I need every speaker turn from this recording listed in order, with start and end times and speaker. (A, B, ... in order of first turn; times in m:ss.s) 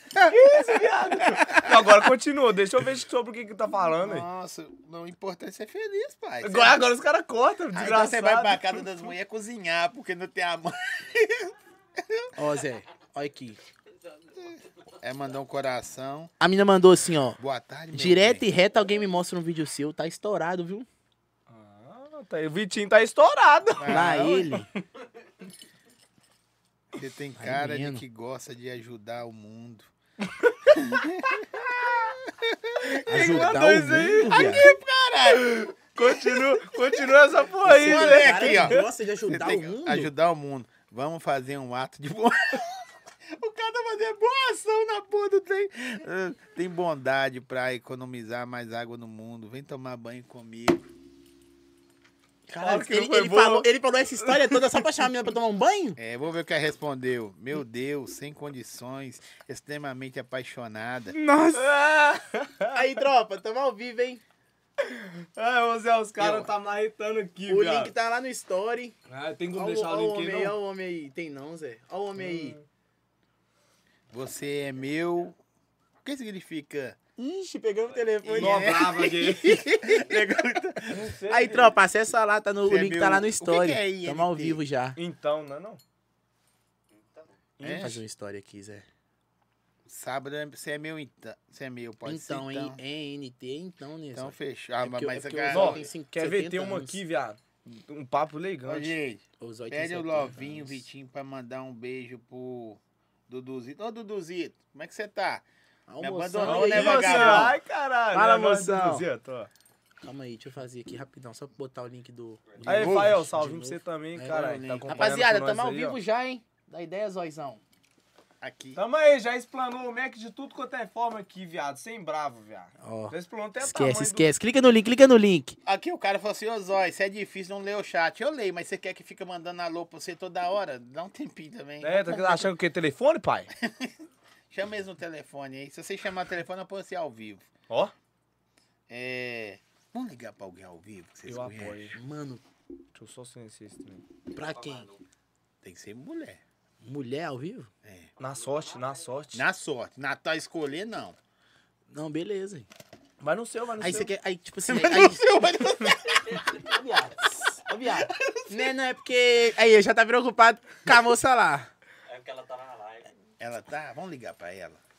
0:00.3-0:04.3 A
0:01.2-0:01.7 B
0:04.0-0:06.8 C
0:06.4-0:08.9 A
0:07.7-0:12.3 C
0:12.4-0:13.6 B
0:14.4-0:16.3 C
0:16.4-0:17.4 B
0:17.4-0:18.4 C
0:17.9-0:20.9 B
0:21.5-0:24.8 A
0:23.8-0:24.6 C
0:23.9-0:24.7 B
0:26.9-0:29.9 C
0:27.4-0:28.0 B
0:30.2-0:30.8 A
0:30.7-0:33.4 C
0:32.8-0:38.8 A
0:33.1-0:34.6 B
0:34.2-0:36.8 C
0:37.6-0:40.1 B
0:37.7-0:50.9 C
0:52.5-0:56.0 B
0:52.6-0:53.7 A
0:54.2-0:54.8 A
0:56.0-1:01.2 C
1:01.1-1:01.7 B
1:01.5-1:02.9 A
1:02.7-1:04.2 B
1:04.8-1:07.9 A
1:06.2-1:06.5 C
1:07.5-1:09.0 B
1:09.1-1:10.6 A
1:09.5-1:12.6 B
1:12.2-1:12.6 A
1:14.1-1:15.4 C
1:16.0-1:17.0 C
1:17.2-1:20.2 B
1:18.2-1:21.1 C
1:18.3-1:19.6 A
1:20.9-1:21.7 A
1:21.3-1:25.0 B
1:22.6-1:24.6 C
1:25.0-1:25.8 A
1:26.9-1:27.3 D
1:27.6-1:28.0 A
1:27.6-1:28.0 C
1:27.6-1:28.8 B
1:29.9-1:32.8 C
1:32.0-1:37.0 B
1:34.1-1:35.9 C
1:35.5-1:38.9 A
1:38.6-1:45.4 C
1:39.4-1:40.8 B
1:45.9-1:47.5 B
1:46.0-1:47.6 C
1:46.4-1:49.5 A
1:48.1-1:49.1 B
1:50.0-1:57.6 B
1:52.6-1:56.0 A
1:52.6-1:53.2 C
1:54.3-1:55.2 C
1:58.4-1:58.8 C
1:58.7-2:04.3 A
2:02.8-2:05.6 B
2:05.6-2:12.5 C
2:11.8-2:13.5 A
2:13.6-2:13.9 C
2:14.5-2:17.5 C
2:17.7-2:17.9 A
2:18.9-2:21.9 C
2:21.2-2:22.0 A
2:21.9-2:22.4 B
2:22.9-2:24.0 A
2:24.3-2:24.9 B
2:24.3-2:25.0 D
2:25.6-2:26.4 C
2:26.8-2:27.7 B
2:27.8-2:28.1 C
2:28.2-2:29.4 A
2:28.2-2:29.1 D
2:29.3-2:31.2 C
2:31.9-2:32.7 B
2:33.2-2:34.1 A
2:33.8-2:35.4 B
2:34.7-2:36.6 C
2:36.5-2:41.7 B
2:37.8-2:38.3 C
2:42.1-2:43.1 D
2:43.4-2:44.8 C